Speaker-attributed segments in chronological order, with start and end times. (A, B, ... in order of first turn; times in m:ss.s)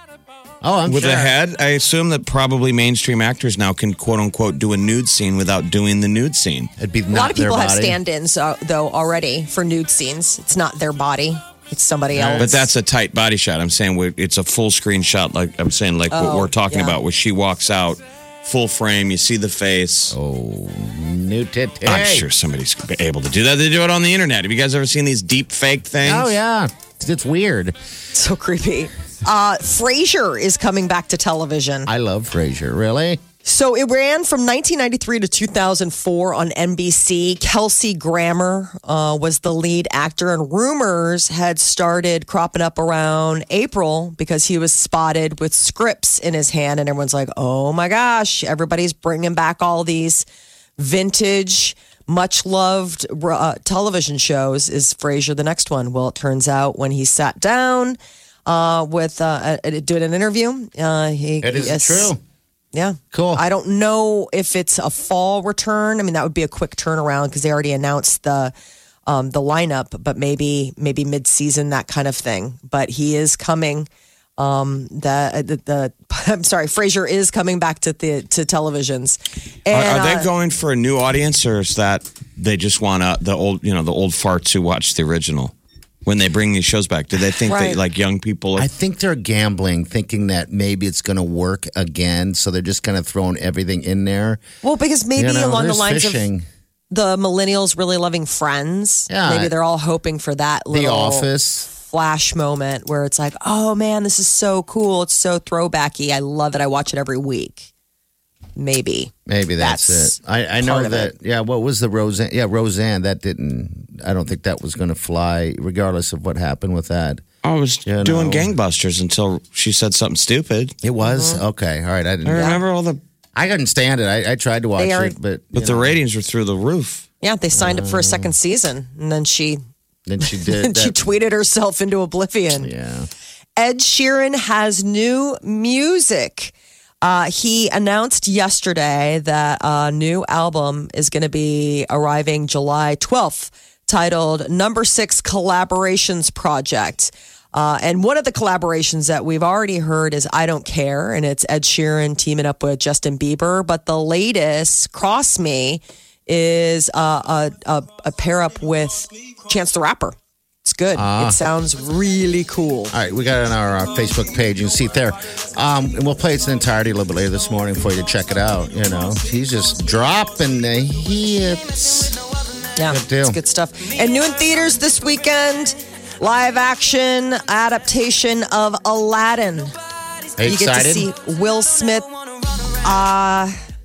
0:00.6-0:01.3 A
0:00.9-0:06.7 B
0:06.8-0:08.0 A
0:07.1-0:12.7 C
0:12.1-0:12.5 A
0:12.4-0:20.2 B
0:16.1-0:17.0 C
0:20.1-0:22.3 A
0:21.8-0:26.3 B
0:26.0-0:27.8 A
0:28.2-0:31.9 C
0:31.9-0:33.2 A
0:33.4-0:50.2 C
0:50.8-1:02.1 C
1:01.4-1:02.2 A
1:02.7-1:08.5 C
1:03.1-1:03.4 A
1:09.1-1:20.3 C
1:19.7-1:25.5 B
1:26.0-1:28.7 B
1:27.5-1:27.8 C
1:28.6-1:34.4 A
1:34.6-1:36.3 C
1:35.2-1:36.5 A
1:36.9-1:47.7 C
1:39.1-1:39.5 A
1:40.7-1:41.7 A
1:48.6-1:51.1 C
1:49.3-1:57.2 A
1:57.4-2:00.8 B
1:57.9-1:58.5 A
2:00.8-2:02.6 A
2:01.0-2:01.4 C
2:02.2-2:03.0 B
2:03.4-2:06.0 A
2:04.8-2:05.2 C
2:05.5-2:07.1 B
2:07.2-2:09.6 C
2:07.5-2:08.3 A
2:10.1-2:11.0 A
2:10.2-2:12.7 C
2:12.6-2:13.1 A
2:13.6-2:42.9 C
2:40.9-2:41.4 A
2:42.9-2:52.2 A
2:52.8-2:59.7 C
2:52.9-2:53.4 A
3:00.4-3:01.1 A
3:00.4-3:02.1 C
3:02.8-3:03.6 C